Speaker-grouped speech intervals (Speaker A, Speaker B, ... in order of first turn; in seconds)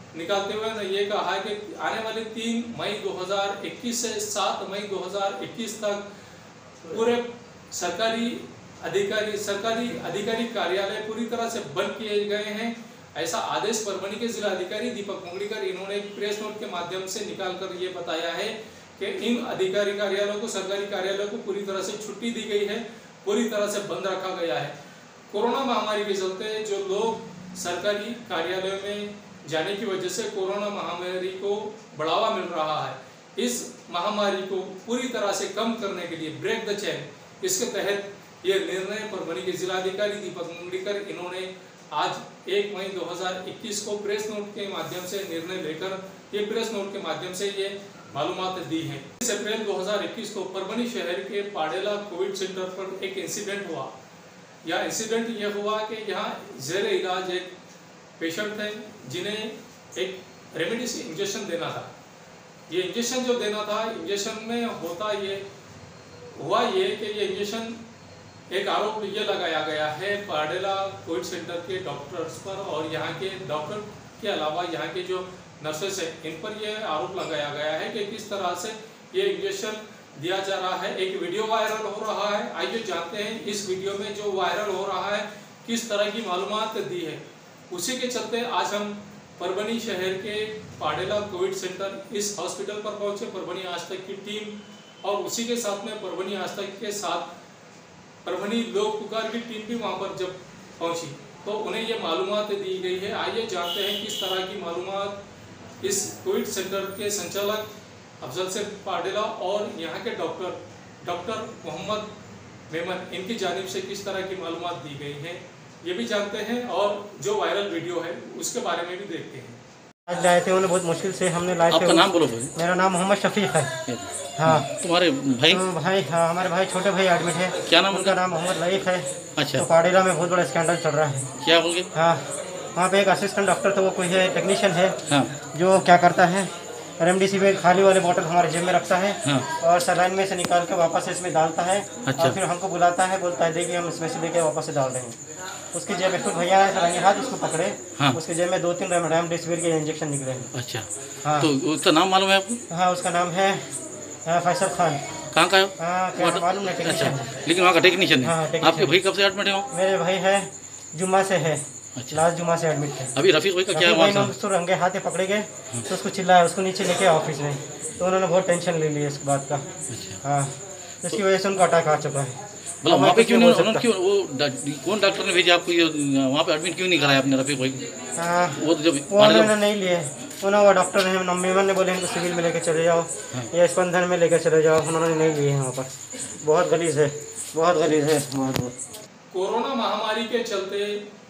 Speaker A: 0.1-6.0, 6.9-24.7, 25.3-53.9, 54.6-57.5, 58.2-61.9, 62.7-65.4, 66.4-67.8, 68.5-97.3, 98.2-105.2, 105.8-107.7, 108.2-112.1, 112.7-119.6, 189.3-191.0
Speaker B: 120.1-123.7, 124.4-124.7, 125.5-131.3, 131.9-132.2, 132.8-134.9, 135.5-145.2, 145.7-150.5, 151.2-151.5, 152.7-153.7, 154.3-155.0, 155.8-157.2, 158.2-159.0, 159.7-163.1, 163.7-169.6, 170.2-170.5, 171.0-172.3, 172.9-173.9, 178.2-188.8
Speaker C: 121.7-122.5, 123.9-125.7, 127.7-128.2, 129.4-129.7, 131.4-131.9, 142.1-142.4, 150.5-152.6, 155.3-159.7, 162.0-162.2, 163.2-164.3, 169.9-170.2, 172.8-177.9, 178.5-179.5